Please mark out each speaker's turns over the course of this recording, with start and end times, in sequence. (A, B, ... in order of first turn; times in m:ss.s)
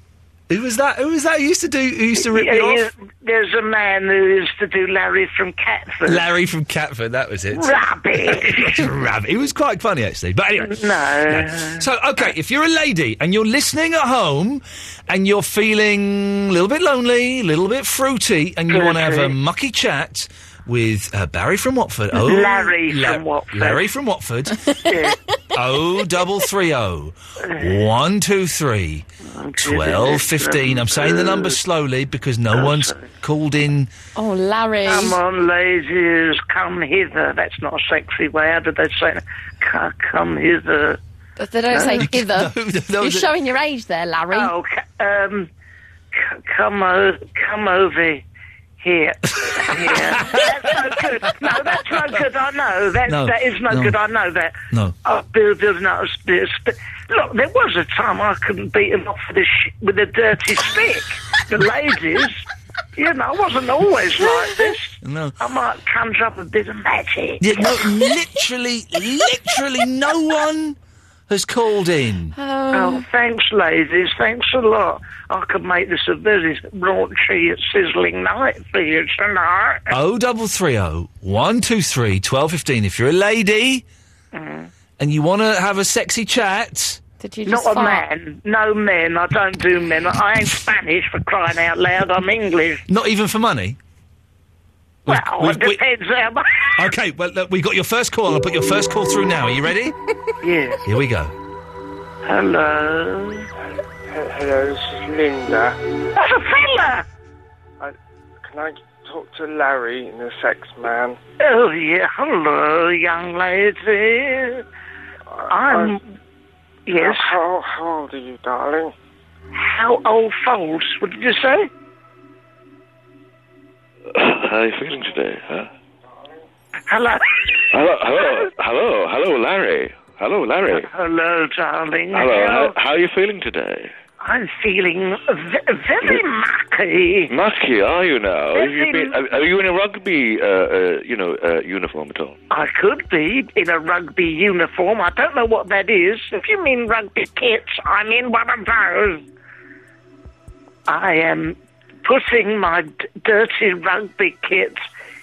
0:00.5-0:02.9 A
0:02.2-0:06.3 B
0:06.1-0:10.8 A
0:07.5-0:08.9 B
0:10.6-0:12.3 B
0:11.3-0:24.6 A
0:18.7-0:19.4 B
0:22.1-0:23.9 B
0:24.8-0:25.2 B
0:25.5-0:29.1 A
0:27.5-0:27.8 B
0:29.4-0:31.6 B
0:29.6-0:33.9 A
0:32.5-0:33.1 B
0:34.1-0:35.2 C
0:34.8-0:41.0 B
0:41.4-0:44.5 C
0:41.7-0:42.1 B
0:41.9-0:43.3 A
0:44.3-0:45.5 B
0:46.1-0:48.2 B
0:48.8-1:02.4 B
0:49.9-0:50.4 A
0:53.1-0:53.9 A
1:03.0-1:07.7 B
1:05.0-1:05.3 A
1:07.4-1:10.8 A
1:11.3-1:12.3 A
1:12.4-1:13.0 C
1:12.7-1:19.9 B
1:19.9-1:23.8 A
1:24.3-1:24.7 B
1:25.0-1:27.0 A
1:27.2-1:28.0 C
1:27.4-1:32.8 B
1:32.9-1:33.8 A
1:35.1-1:35.8 A
1:35.1-1:36.9 B
1:36.8-1:40.0 A
1:40.4-1:40.8 B
1:40.8-1:41.3 A
1:42.2-1:43.5 B
1:44.1-1:45.8 D
1:46.2-1:47.0 B
1:47.8-1:51.2 D
1:51.4-1:54.6 B
1:55.4-1:55.9 D
1:55.5-1:56.0 B
1:56.9-1:57.4 B
1:57.0-1:58.9 D
1:59.5-2:01.7 B
2:04.1-2:05.7 E
2:06.9-2:07.6 B
2:07.7-2:10.9 E
2:08.2-2:08.4 B
2:10.7-2:12.7 B
2:12.1-2:13.9 E
2:14.2-2:17.3 B
2:17.3-2:22.4 E
2:18.5-2:19.2 B
2:22.5-2:29.2 B
2:30.9-2:34.8 B